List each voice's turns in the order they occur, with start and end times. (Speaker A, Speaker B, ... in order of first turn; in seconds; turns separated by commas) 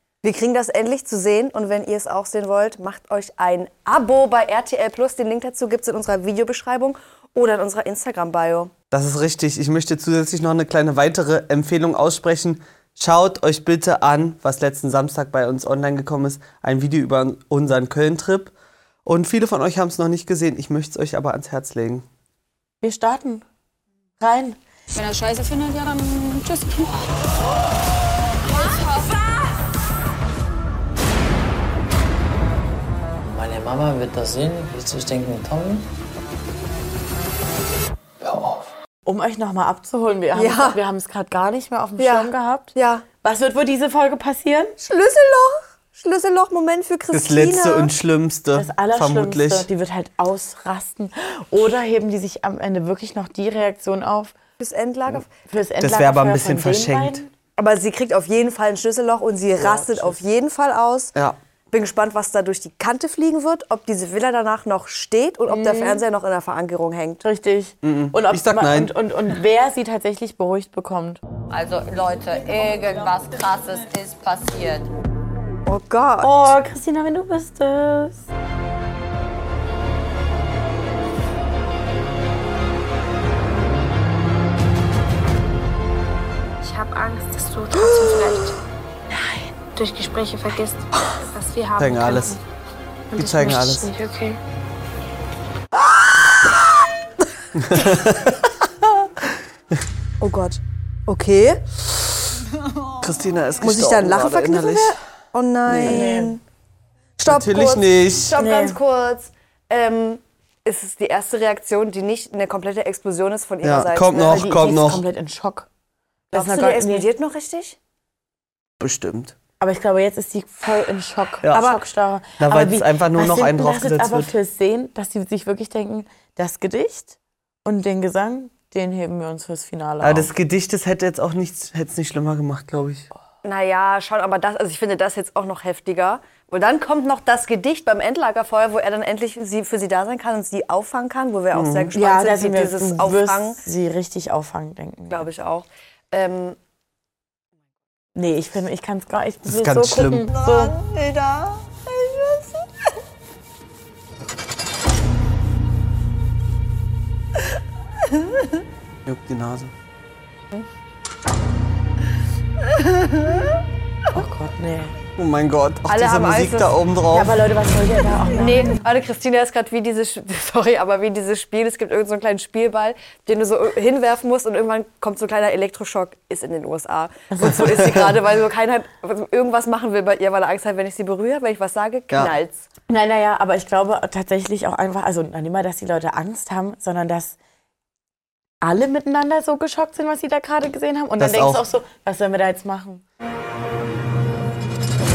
Speaker A: 0.2-8.7, Speaker B: 8.9-18.5, Speaker B: 19.1-22.1, Speaker C: 22.8-23.4, Speaker C: 24.2-24.6, Speaker D: 24.9-27.1, Speaker D: 28.5-29.2, Speaker E: 33.2-35.9, Speaker E: 38.2-38.6, Speaker C: 39.1-44.8, Speaker A: 40.4-40.8, Speaker A: 42.0-43.0, Speaker A: 44.8-47.9, Speaker B: 47.1-49.7, Speaker C: 48.5-54.3, Speaker A: 54.6-55.3, Speaker C: 55.5-57.3, Speaker B: 55.8-57.2, Speaker A: 57.6-61.1, Speaker C: 59.6-60.2, Speaker A: 61.7-67.2, Speaker C: 65.5-66.0, Speaker C: 67.2-71.2, Speaker B: 67.8-68.9, Speaker F: 71.5-74.9, Speaker A: 75.7-76.5, Speaker C: 76.2-78.2, Speaker G: 86.6-88.6, Speaker G: 89.8-92.4, Speaker B: 91.8-92.4, Speaker G: 93.1-94.4, Speaker B: 93.1-93.9, Speaker B: 97.5-98.5, Speaker A: 100.2-101.8, Speaker B: 103.0-105.0, Speaker A: 103.6-106.4, Speaker B: 105.7-106.2, Speaker C: 105.8-106.4, Speaker B: 107.2-108.3, Speaker A: 107.2-114.4, Speaker C: 108.3-108.8, Speaker B: 113.6-115.0, Speaker C: 114.2-115.7, Speaker C: 116.3-117.1, Speaker A: 116.3-117.8, Speaker B: 118.8-119.3, Speaker C: 119.6-130.3, Speaker B: 121.4-121.8, Speaker B: 122.4-124.3, Speaker B: 130.0-133.1, Speaker A: 133.4-143.6, Speaker B: 141.5-141.9, Speaker C: 141.9-145.3, Speaker A: 145.1-146.6, Speaker C: 148.2-150.7, Speaker B: 149.5-150.3, Speaker A: 150.3-152.5, Speaker B: 159.1-159.7, Speaker A: 163.0-163.4, Speaker C: 164.1-164.9, Speaker B: 165.2-167.3, Speaker A: 165.9-166.7, Speaker C: 167.1-168.8, Speaker A: 168.3-182.7, Speaker C: 177.3-178.1, Speaker C: 182.9-187.4, Speaker C: 188.6-193.0, Speaker B: 191.2-191.6